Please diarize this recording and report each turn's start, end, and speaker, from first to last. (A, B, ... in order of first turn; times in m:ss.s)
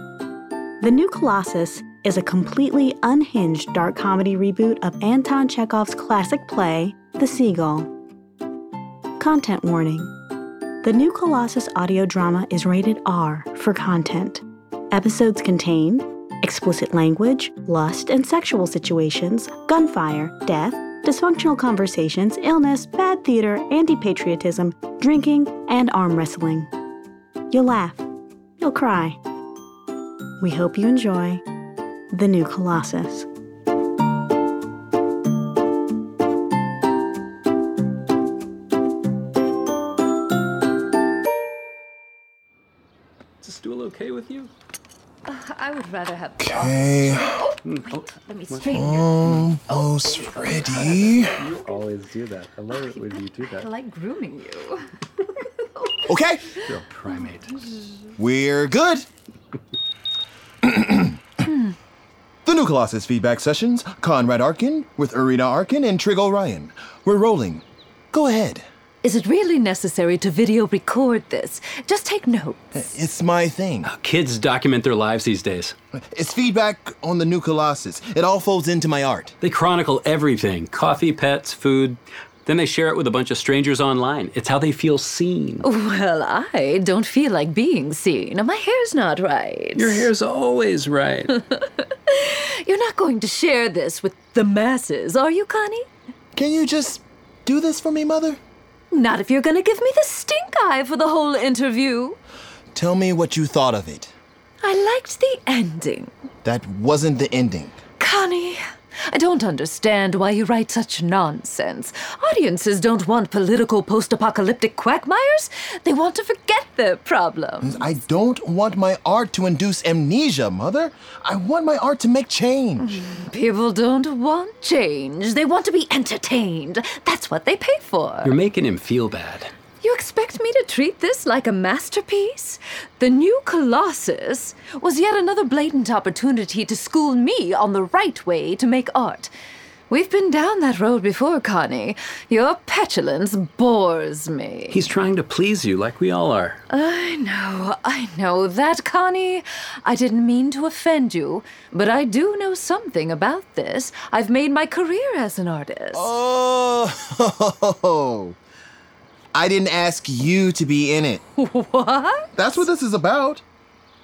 0:00.8-0:07.9 A
0:09.2-0:10.1 A
0:10.8-0:26.7 A
0:27.5-0:28.0 A
0:28.6-0:29.2 A
0:30.4-0:31.4 A
0:32.1-0:33.3 A
0:43.4-0:44.5 B
0:45.3-0:49.4 C
0:46.4-0:47.4 D
0:47.6-0:49.5 B
0:48.7-0:51.4 D
0:50.7-0:53.7 B
0:52.7-0:54.9 C
0:56.1-0:56.5 D
0:56.6-0:57.5 B
0:58.2-0:59.1 D
1:00.6-1:01.2 D
1:02.4-1:08.6 D
1:09.0-1:12.6 C
1:12.7-1:13.9 D
1:13.8-1:15.8 B
1:16.0-1:19.4 D
1:19.4-1:25.7 B
1:25.6-1:30.1 C
1:29.8-1:31.4 B
1:31.3-1:35.9 C
1:36.4-1:38.4 D
1:38.9-1:42.2 C
1:42.7-1:44.1 D
1:44.6-1:46.1 C
1:46.4-1:47.8 D
1:48.0-1:57.8 C
1:57.6-2:02.9 D
2:02.8-2:08.4 C
2:08.2-2:09.5 B
2:09.8-2:19.3 C
2:19.9-2:24.8 C
2:24.7-2:26.6 B
2:26.7-2:36.1 C
2:35.9-2:38.4 D
2:39.3-2:41.2 D
2:41.4-2:42.3 C
2:42.4-2:43.4 D